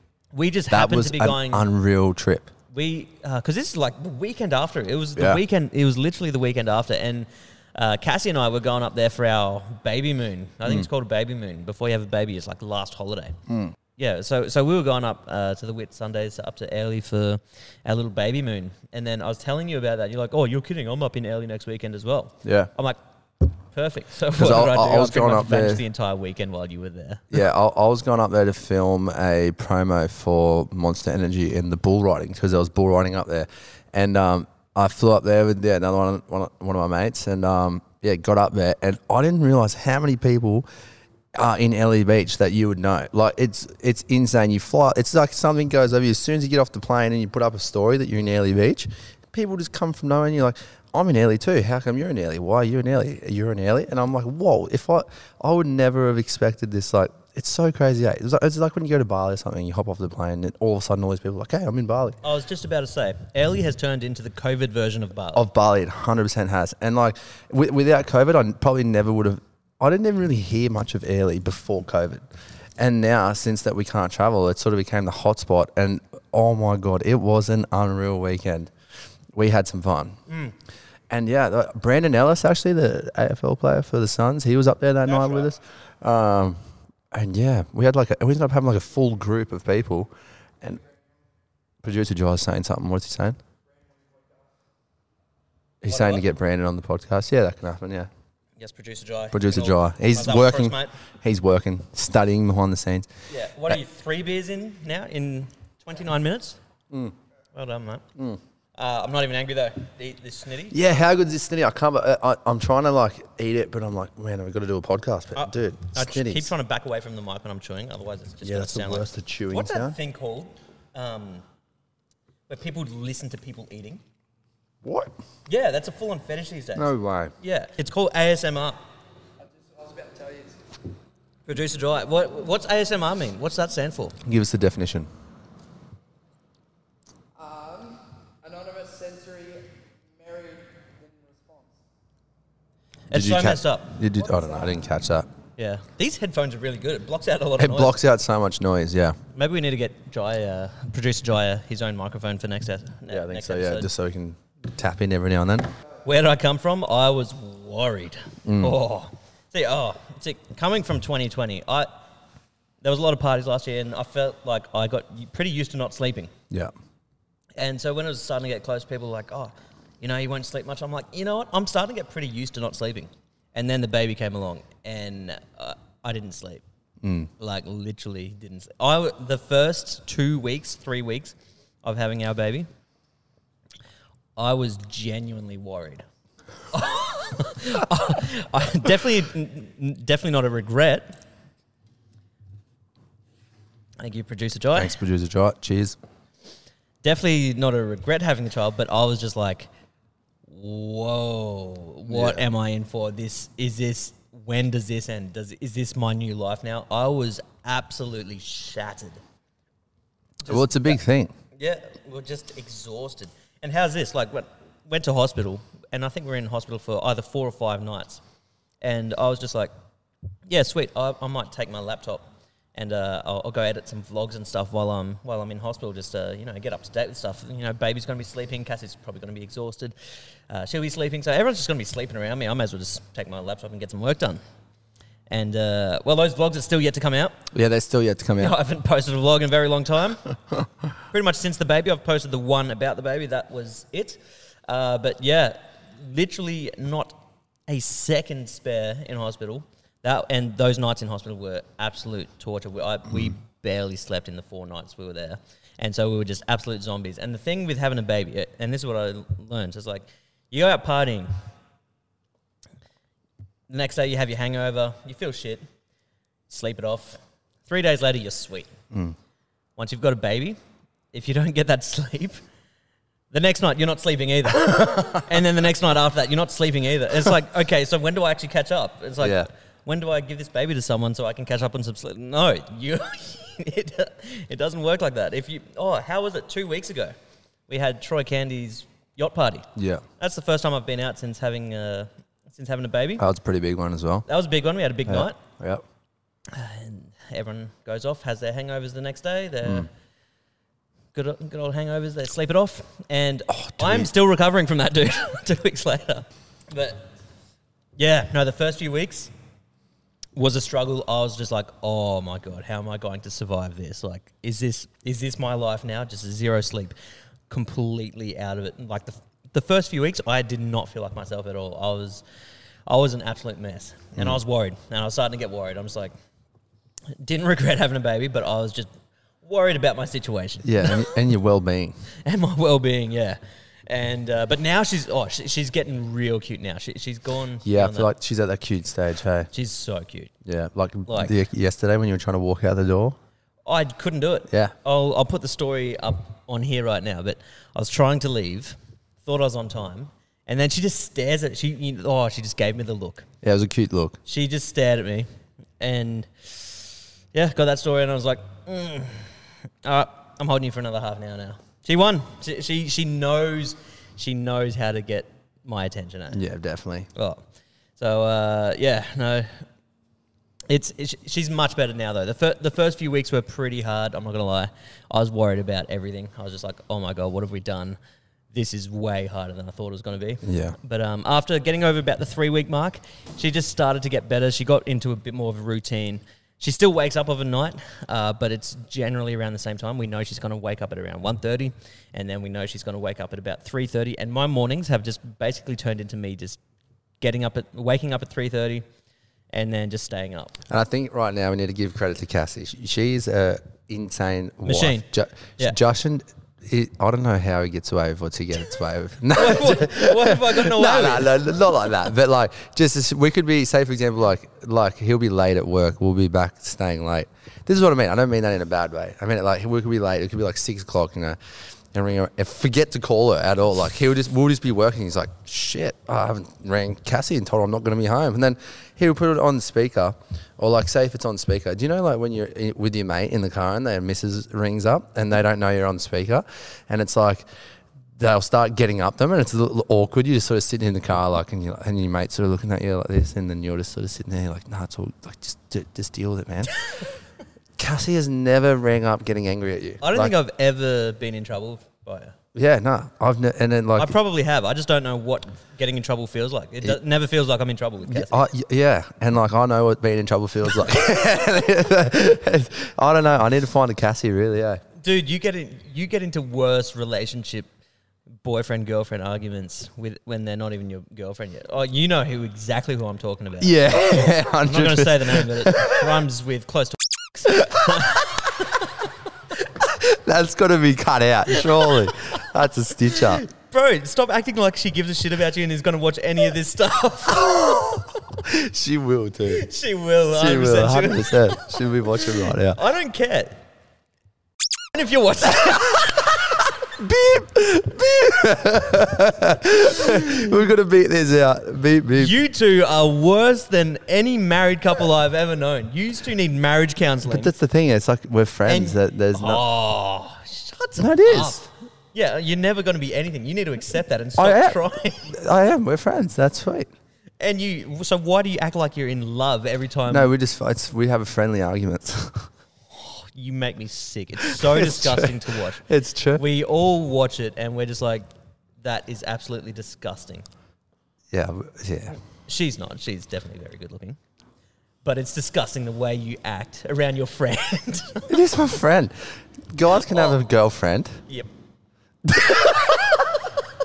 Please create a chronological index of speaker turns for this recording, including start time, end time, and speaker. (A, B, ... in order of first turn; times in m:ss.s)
0:00.3-0:01.7 A
0:00.7-0:02.5 B
0:02.7-0:13.4 A
0:13.5-0:13.7 B
0:14.0-0:23.0 A
0:22.4-0:22.7 B
0:23.7-0:27.3 A
0:24.3-0:25.8 B
0:27.3-0:40.6 B
0:41.3-1:02.2 B
1:02.2-1:05.4 A
1:05.3-1:12.2 B
1:12.8-1:18.7 B
1:19.3-1:20.2 B
1:20.3-1:20.5 A
1:21.1-1:26.6 B
1:27.1-1:30.1 B
1:31.8-1:33.4 B
1:33.7-1:34.4 C
1:35.8-1:38.1 B
1:35.9-1:36.2 A
1:38.6-1:40.9 A
1:39.3-1:43.1 B
1:43.3-1:46.6 A
1:47.5-1:48.0 A
1:48.8-1:50.8 A
1:50.7-1:56.5 B
1:55.4-2:01.4 A
1:58.4-2:00.0 B
2:02.5-2:04.0 A
2:04.8-2:05.1 B
2:05.5-2:08.8 A
2:06.7-2:07.3 B
2:09.4-2:10.6 C
2:11.5-2:14.2 A
2:14.2-2:15.1 B
2:17.4-2:21.8 C
2:23.1-2:24.0 A
2:23.1-2:25.3 B
2:24.2-2:24.8 C
2:25.6-2:28.0 A
2:27.6-2:29.2 B
2:29.3-2:33.9 A
2:33.1-2:35.7 B
2:36.0-2:41.9 A
2:38.4-2:38.8 B
2:42.8-2:46.3 A
2:47.6-2:56.6 A
2:57.0-2:57.3 B
2:57.4-3:02.7 A
3:04.4-3:06.0 A
3:06.7-3:11.1 A
3:14.0-3:14.9 A
3:14.7-3:16.0 B
3:17.0-3:19.7 A
3:20.5-3:29.2 A
3:22.1-3:22.4 B
3:30.4-3:31.0 A
3:30.4-3:31.3 B
3:31.5-3:38.2 A
3:38.8-3:39.7 A
3:40.5-3:49.9 A
3:50.5-3:54.4 A
3:55.3-3:57.4 A
3:57.5-3:58.6 B
3:58.4-4:00.2 A
4:01.1-4:21.3 A
4:23.7-4:25.6 A
4:26.5-4:28.7 A
4:29.8-4:30.6 A
4:31.1-4:32.4 A
4:33.3-4:47.1 A
4:39.2-4:39.5 B
4:47.7-4:49.7 A
4:49.8-4:50.0 B
4:50.2-4:53.2 A
4:53.2-4:54.2 B
4:54.3-4:55.4 A
4:55.1-4:55.8 B
4:56.5-4:59.9 A
5:01.1-5:07.1 A
5:03.5-5:04.1 B
5:08.0-5:09.3 A
5:10.3-5:16.9 A
5:17.5-5:22.2 A
5:22.9-5:26.1 A
5:27.2-5:28.9 A
5:29.4-5:31.1 A
5:30.6-5:32.0 B
5:32.2-5:38.1 A
5:37.6-5:39.5 B
5:39.5-5:40.3 A
5:40.4-5:43.2 B
5:41.1-5:41.3 A
5:43.6-5:53.2 A
5:44.5-5:44.7 B
5:53.4-5:54.2 B
5:54.2-5:55.3 A
5:55.8-6:06.4 A
6:06.3-6:07.1 B
6:07.1-6:07.4 A
6:08.0-6:09.6 A
6:10.7-6:18.0 A
6:18.5-6:36.6 A
6:20.4-6:20.8 B
6:37.2-6:38.8 A
6:39.5-6:40.5 A
6:40.7-7:01.4 B
6:44.6-6:45.1 A
6:49.3-6:51.4 A
7:01.9-7:17.4 B
7:18.2-7:26.7 B
7:27.8-7:30.3 B
7:30.0-7:32.3 A
7:32.5-7:34.1 B
7:34.0-7:38.4 A
7:38.0-7:44.8 B
7:45.0-7:47.7 A
7:48.4-7:58.8 A
7:53.6-7:56.2 B
7:57.6-7:58.4 B
7:59.8-8:03.4 B
8:01.6-8:02.3 A
8:03.0-8:07.8 A
8:07.3-8:09.6 B
8:09.5-8:13.6 A
8:10.3-8:12.8 B
8:14.9-8:16.6 A
8:16.8-8:22.3 B
8:22.2-8:27.5 A
8:27.2-8:29.6 B
8:28.6-8:35.3 A
8:31.0-8:31.7 B
8:34.4-8:36.9 B
8:37.4-8:40.3 A
8:40.1-8:42.5 B
8:43.0-8:48.3 A
8:44.4-8:46.4 B
8:48.8-8:50.4 A
8:51.3-8:52.2 B
8:52.5-8:54.2 A
8:55.0-8:58.3 A
8:58.3-9:01.2 B
9:00.0-9:00.4 A
9:02.2-9:03.3 B